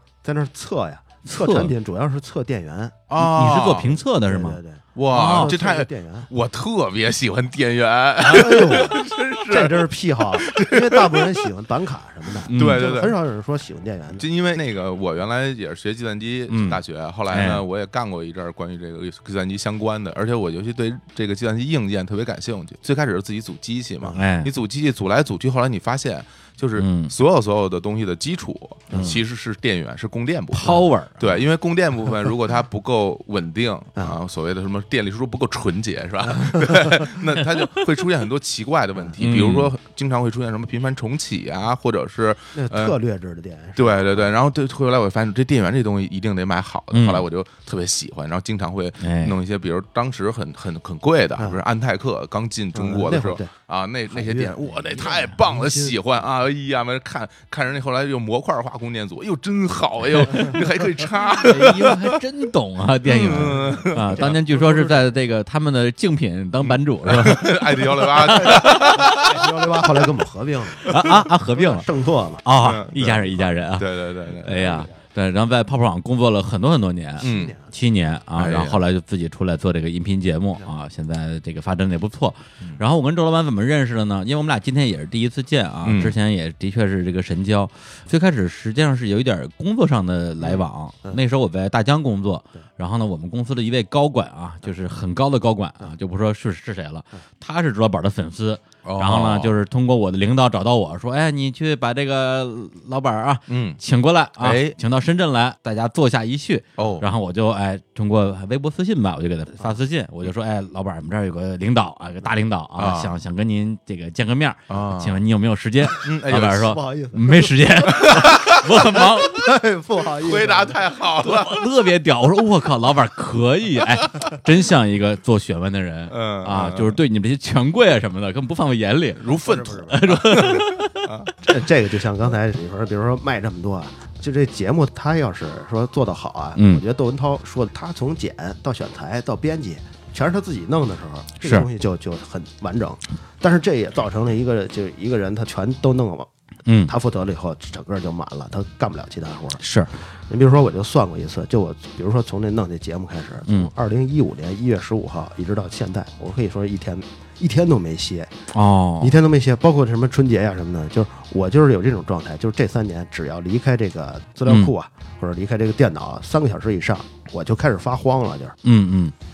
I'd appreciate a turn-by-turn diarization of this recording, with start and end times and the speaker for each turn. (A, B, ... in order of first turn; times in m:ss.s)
0:00.2-0:03.0 A
0:01.2-0:01.7 B
0:03.1-0:04.0 C
0:03.2-0:04.6 B
0:04.2-0:06.3 A
0:05.0-0:11.5 C
0:05.1-0:05.5 B
0:08.2-0:14.2 A
0:12.5-0:12.9 B
0:12.5-0:13.2 C
0:14.1-0:43.0 C
0:16.5-0:17.6 B
0:24.1-0:24.5 B
0:26.8-0:27.1 B
0:28.9-0:29.2 A
0:30.5-0:31.4 B
0:36.3-0:36.9 A
0:39.2-0:39.7 B
0:42.5-0:44.3 A
0:43.8-1:02.2 C
0:46.9-0:47.2 B
0:49.0-0:49.4 B
0:52.7-0:53.5 A
0:54.1-0:55.9 A
1:01.4-1:07.6 B
1:03.0-1:04.4 C
1:03.7-1:05.0 A
1:06.6-1:09.5 C
1:08.1-1:10.9 A
1:10.9-1:11.1 C
1:10.9-1:11.8 B
1:11.5-1:12.4 A
1:12.4-1:13.9 B
1:12.6-1:14.8 C
1:14.4-1:59.5 B
1:17.2-1:17.5 C
1:17.2-1:17.7 A
1:18.4-1:18.8 C
1:25.8-1:26.2 C
1:30.4-1:31.2 A
1:38.8-1:39.5 C
1:43.5-1:43.8 C
1:44.4-1:44.8 C
1:46.8-1:47.0 C
1:52.8-1:53.2 C
1:54.7-1:55.2 C
1:56.0-1:56.8 C
1:56.4-2:00.8 A
1:57.9-1:58.6 C
2:00.2-2:01.6 C
2:01.2-2:09.3 B
2:06.1-2:07.0 C
2:09.2-2:11.3 C
2:09.3-2:10.1 A
2:09.9-2:11.0 B
2:11.4-2:26.3 A
2:16.6-2:16.8 B
2:21.4-2:21.7 B
2:26.6-2:26.9 B
2:26.8-2:29.6 A
2:29.6-2:29.9 B
2:30.3-2:38.4 A
2:38.5-2:39.2 B
2:39.0-2:48.6 A
2:44.4-2:44.7 B
2:48.6-2:49.1 B